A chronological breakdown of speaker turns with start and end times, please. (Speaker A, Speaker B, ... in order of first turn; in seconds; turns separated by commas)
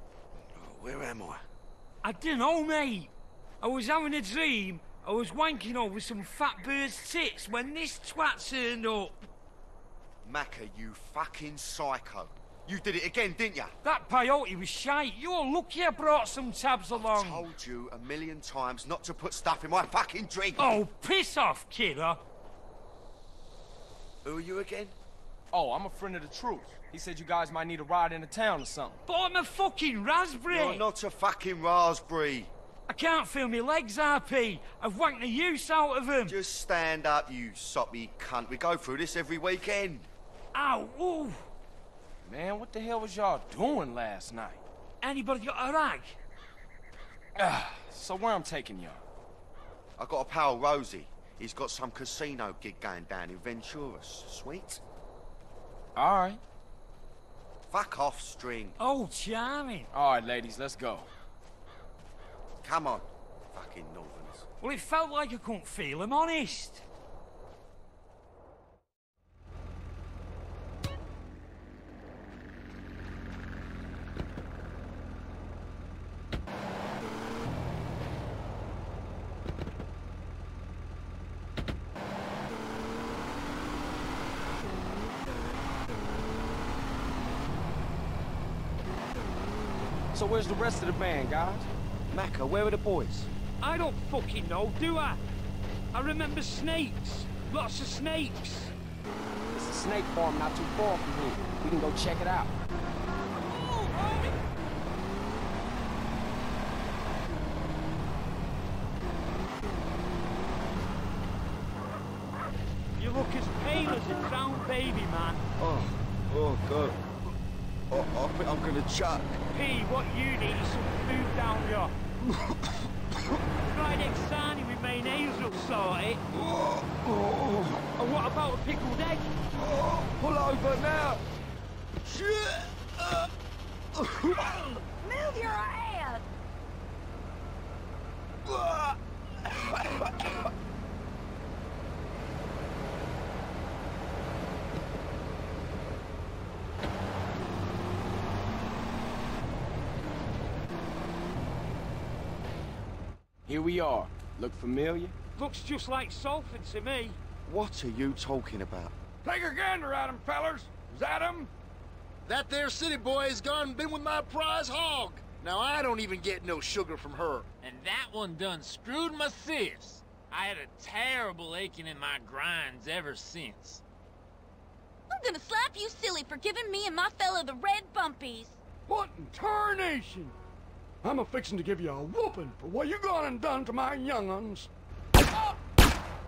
Speaker A: 0.5-1.4, Speaker B: 2.0-9.2, Speaker A: 10.2-13.7, Speaker B: 13.8-17.5, Speaker A: 16.9-20.7, Speaker B: 20.6-22.2, Speaker A: 24.2-24.9, Speaker C: 25.5-29.0, Speaker B: 29.1-30.8, Speaker A: 30.5-32.5, Speaker B: 32.9-36.4, Speaker A: 36.2-40.1, Speaker B: 40.5-41.5, Speaker C: 42.2-44.6, Speaker B: 45.0-46.2, Speaker C: 47.4-49.0, Speaker A: 50.0-54.8, Speaker C: 56.0-56.4, Speaker A: 57.7-58.8, Speaker B: 58.8-59.9, Speaker C: 59.9-61.1, Speaker A: 62.6-64.5, Speaker B: 64.6-66.8, Speaker C: 90.1-91.7, Speaker A: 92.1-93.3, Speaker B: 93.6-95.2, Speaker B: 95.9-98.7, Speaker C: 99.5-102.5, Speaker B: 103.6-104.3, Speaker B: 113.0-115.4, Speaker A: 115.6-117.0, Speaker A: 117.9-119.4, Speaker B: 119.5-121.9, Speaker A: 122.2-122.6, Speaker B: 123.7-126.2, Speaker A: 126.3-127.8, Speaker B: 127.9-129.3, Speaker A: 129.6-131.2, Speaker A: 132.0-133.3, Speaker A: 133.9-134.7, Speaker D: 134.9-136.2, Speaker A: 138.4-140.5, Speaker C: 153.5-155.1, Speaker B: 155.3-157.2, Speaker A: 157.4-158.9, Speaker E: 159.2-161.5, Speaker F: 162.2-167.4, Speaker G: 167.6-173.8, Speaker D: 175.1-178.6, Speaker E: 178.9-180.3, Speaker E: 181.0-184.7